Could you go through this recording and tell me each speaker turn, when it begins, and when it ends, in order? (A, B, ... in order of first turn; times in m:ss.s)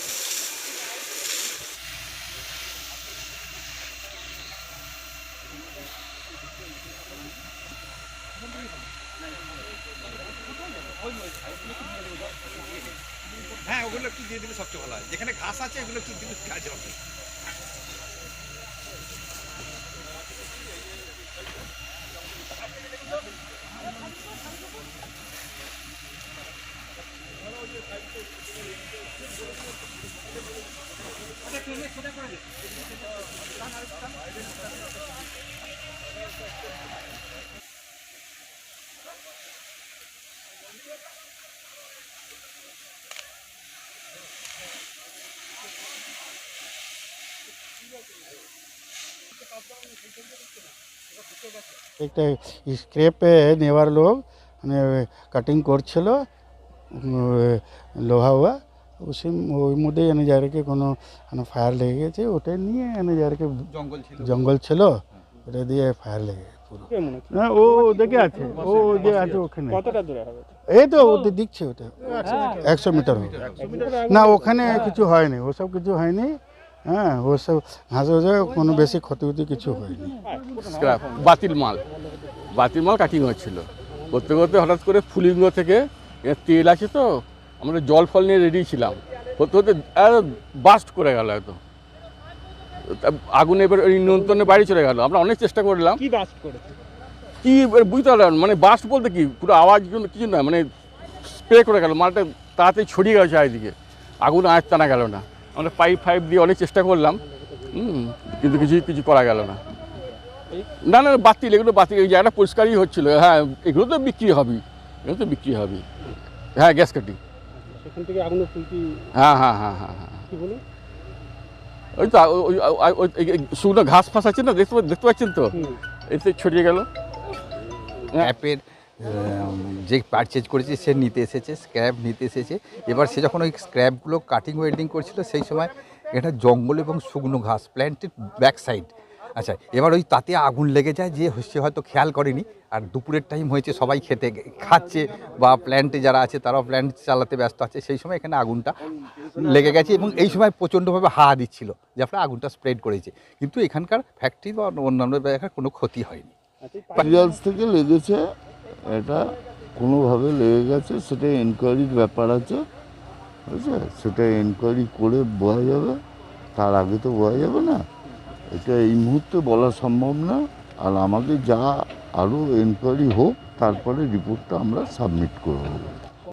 0:13.6-0:17.0 A
0:52.0-0:56.2 B
0:56.9-1:03.6 B
1:03.7-1:04.5 C
1:04.2-1:09.8 B
1:06.9-1:10.5 D
1:10.7-1:20.1 B
1:13.6-1:14.9 D
1:20.5-1:21.8 E
1:22.0-1:22.2 D
1:22.5-1:27.1 E
1:27.6-1:31.6 E
1:32.9-1:36.0 E
1:34.2-1:34.6 D
1:36.0-1:36.7 D
1:37.4-1:40.6 E
1:41.2-1:47.2 E
1:47.7-1:49.6 E
1:50.8-1:55.8 E
1:56.6-1:57.2 E
1:57.7-1:59.0 D
1:59.2-2:00.2 E
2:00.3-2:00.6 D
2:02.0-2:05.6 E
2:05.5-2:05.8 D
2:06.1-2:06.9 E
2:08.2-2:28.7 C
2:29.3-2:36.3 C
2:36.6-2:37.2 D
2:37.0-2:38.2 F
2:38.9-2:42.6 F
2:43.5-2:46.0 F
2:46.6-2:47.8 F
2:48.5-2:56.0 F